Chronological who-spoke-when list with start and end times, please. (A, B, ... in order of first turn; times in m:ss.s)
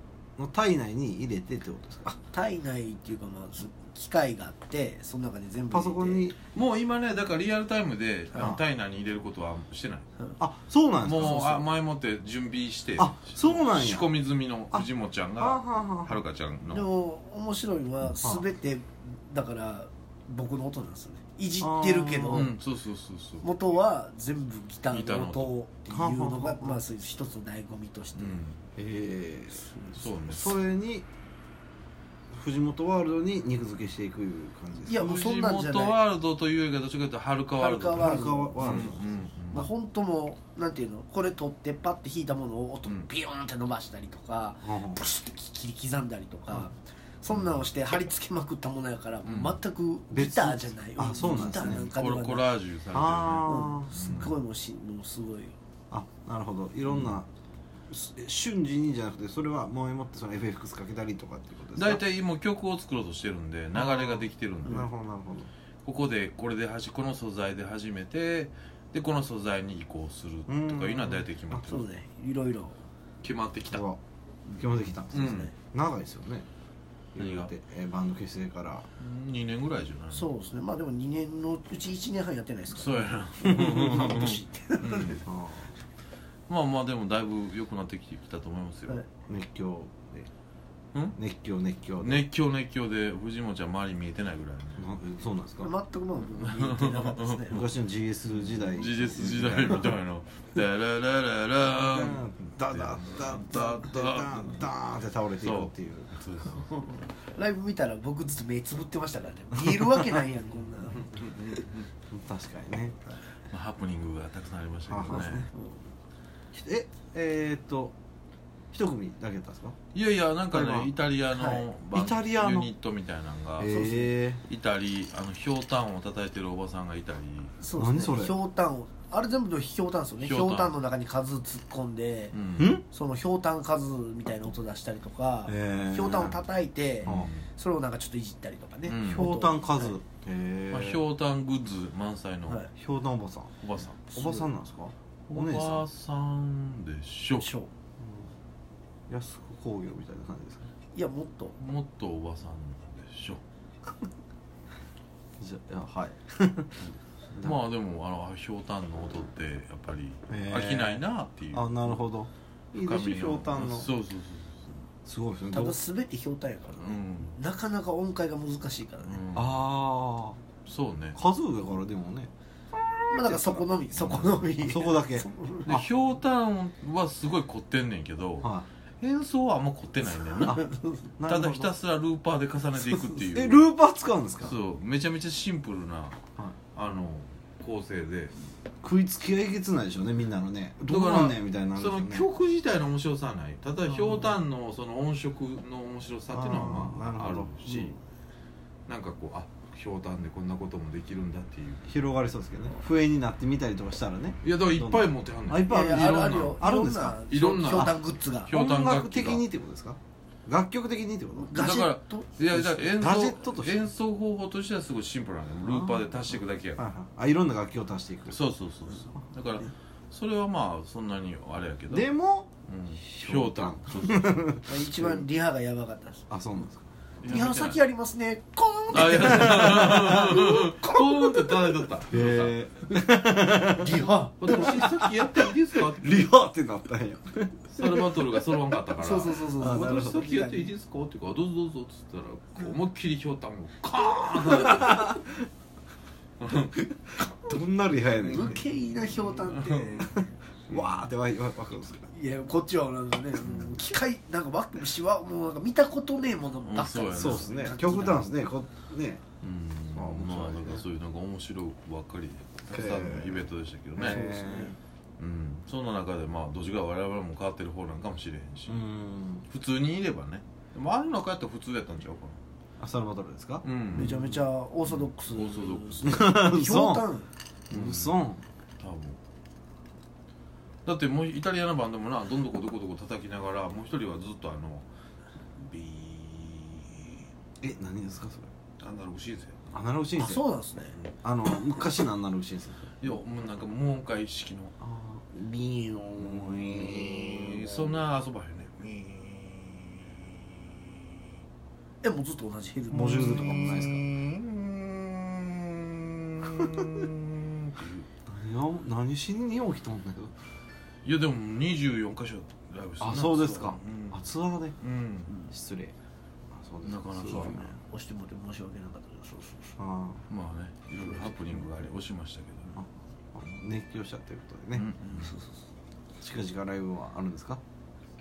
0:00.4-0:02.2 A
0:02.3-0:06.3 B
0:05.7-0:06.4 A
0:06.5-0:10.1 C
0:08.3-0:08.6 A
0:10.4-0:11.6 A
0:11.0-0:16.9 C
0:13.0-0:14.1 A
0:15.4-0:16.2 A
0:16.7-0:22.5 B
0:18.2-0:18.5 A
0:21.6-0:22.5 A
0:22.3-0:23.6 C
0:23.4-0:28.4 B
0:24.9-0:25.6 C
0:25.9-0:26.8 A
0:28.2-0:28.6 C
0:28.8-0:31.1 A
0:29.5-0:30.2 B
0:29.9-0:30.6 C
0:32.3-0:35.0 A
0:34.8-0:36.0 B
0:34.9-0:39.7 C
0:37.6-0:38.9 B
0:37.9-0:39.3 A
0:39.5-0:52.5 B
0:44.6-0:45.0 A
0:47.3-0:47.7 C
0:49.2-0:49.6 C
0:50.1-0:51.9 A
0:51.2-0:54.4 C
0:52.9-0:53.9 A
0:53.4-0:55.6 B
0:55.9-0:57.3 A
0:56.9-0:57.2 C
0:57.9-1:02.0 A
1:01.8-1:04.9 C
1:03.7-1:05.5 A
1:05.8-1:11.9 C
1:10.5-1:11.7 A
1:11.6-1:12.8 B
1:13.2-1:13.9 C
1:13.7-1:14.0 A
1:14.6-1:16.5 A
1:15.1-1:15.5 C
1:15.2-1:15.5 B
1:17.2-1:18.9 A
1:17.2-1:17.5 C
1:19.0-1:20.3 C
1:20.1-1:25.2 B
1:22.7-1:25.2 C
1:23.5-1:24.1 A
1:25.2-1:25.7 A
1:26.5-1:29.1 C
1:29.3-1:30.3 A
1:31.1-1:32.2 A
1:32.0-1:35.0 C
1:34.8-1:35.7 A
1:35.6-1:37.7 B
1:36.2-1:37.6 C
1:37.5-1:39.9 A
1:38.3-1:44.7 C
1:41.8-1:46.2 A
1:45.4-1:46.7 C
1:46.7-1:51.6 B
1:49.8-1:50.1 A
1:51.1-1:51.6 C
1:52.1-1:53.0 A
1:53.5-1:55.5 C
1:54.9-1:55.4 A
1:55.1-1:55.9 B
1:56.5-1:58.0 A
1:58.7-1:59.8 A
1:59.9-2:07.6 C
2:00.5-2:00.9 A
2:01.9-2:02.7 A
2:03.6-2:04.4 A
2:07.6-2:20.0 B
2:07.8-2:08.4 A
2:10.2-2:10.8 C
2:12.3-2:12.8 C
2:12.6-2:12.8 A
2:15.5-2:16.4 A
2:17.0-2:17.5 C
2:17.0-2:17.3 A
2:18.9-2:19.3 C
2:19.0-2:21.0 A
2:20.7-2:22.7 C
2:22.8-2:23.6 A
2:23.6-2:24.0 C
2:24.1-2:25.8 A
2:24.1-2:24.5 B
2:25.3-2:27.5 C
2:27.4-2:27.7 B
2:28.0-2:28.3 A
2:29.1-2:30.7 A
2:30.9-2:31.6 B
2:31.6-2:33.4 C
2:35.4-2:36.8 A
2:37.4-2:42.0 C
2:40.3-2:43.9 A
2:42.8-2:44.8 C
2:45.0-2:45.8 A
2:45.5-2:49.2 B
2:46.8-2:47.4 C
2:49.0-2:49.6 C
2:49.3-2:50.4 A
2:50.7-2:51.2 C
2:51.2-2:52.3 A
2:53.1-2:55.8 B
2:53.2-2:55.3 A
2:55.6-2:58.5 C
2:58.4-2:58.7 A
2:59.0-3:00.6 C
3:00.4-3:01.7 A
3:00.4-3:01.0 B
3:01.2-3:03.6 C
3:03.2-3:04.6 A
3:04.4-3:06.2 C
3:06.8-3:08.4 C
3:08.8-3:12.3 A
3:10.9-3:18.0 C
3:13.9-3:14.4 A
3:16.3-3:18.0 A
3:18.9-3:21.9 C
3:21.9-3:31.8 A
3:24.4-3:26.6 C
3:25.6-3:28.5 B
3:27.3-3:29.5 C
3:31.4-3:32.3 B
3:31.5-3:36.8 C
3:32.5-3:33.8 A
3:35.7-3:38.4 A
3:38.3-3:42.1 C
3:41.9-3:42.5 A
3:42.7-3:44.6 C
3:43.0-3:45.3 A
3:44.7-3:46.3 B
3:46.3-3:46.8 A
3:47.2-3:47.8 C
3:47.2-3:50.5 B
3:48.9-3:52.9 C
3:49.0-3:50.8 A
3:52.1-3:58.2 A
3:53.7-3:54.8 B
3:54.4-3:56.4 C
3:57.7-4:05.3 C
3:59.0-4:00.7 B
3:59.6-4:00.3 A
4:04.5-4:05.3 A
4:06.4-4:06.8 C
4:07.1-4:08.6 A
4:08.2-4:10.1 C
4:08.3-4:10.2 B
4:10.0-4:12.1 A
4:10.7-4:11.1 C
4:12.1-4:18.2 B
4:13.4-4:13.9 C
4:16.6-4:18.2 C
4:17.1-4:19.2 A
4:19.4-4:24.2 C
4:19.9-4:20.8 A
4:22.7-4:24.8 A
4:24.0-4:24.8 B
4:25.2-4:28.8 C
4:28.7-4:29.5 A
4:29.5-4:32.4 C
4:32.8-4:34.2 A
4:33.6-4:36.3 C
4:33.9-4:37.3 B
4:36.0-4:37.1 A
4:37.7-4:38.2 C
4:37.7-4:38.4 A
4:38.8-4:39.2 C
4:40.8-4:44.9 C
4:45.6-4:47.2 C
4:47.6-4:48.5 A
4:48.8-4:49.6 C
4:49.7-4:50.4 A
4:50.2-4:51.0 B
4:51.2-4:52.9 A
4:53.0-4:54.8 C
4:54.8-4:58.0 A
4:56.2-5:00.8 C
5:02.0-5:03.8 B
5:02.9-5:04.1 A
5:03.2-5:08.1 C
5:06.4-5:07.1 A
5:08.3-5:10.3 A
5:11.0-5:14.2 C
5:13.0-5:14.8 A
5:14.8-5:15.3 C
5:15.5-5:15.9 A
5:16.5-5:17.7 A
5:16.8-5:17.6 C
5:17.3-5:19.8 B
5:19.8-5:20.2 A
5:20.3-5:22.8 C
5:22.7-5:24.9 A
5:24.7-5:25.4 C
5:25.1-5:25.6 B
5:26.2-5:27.6 A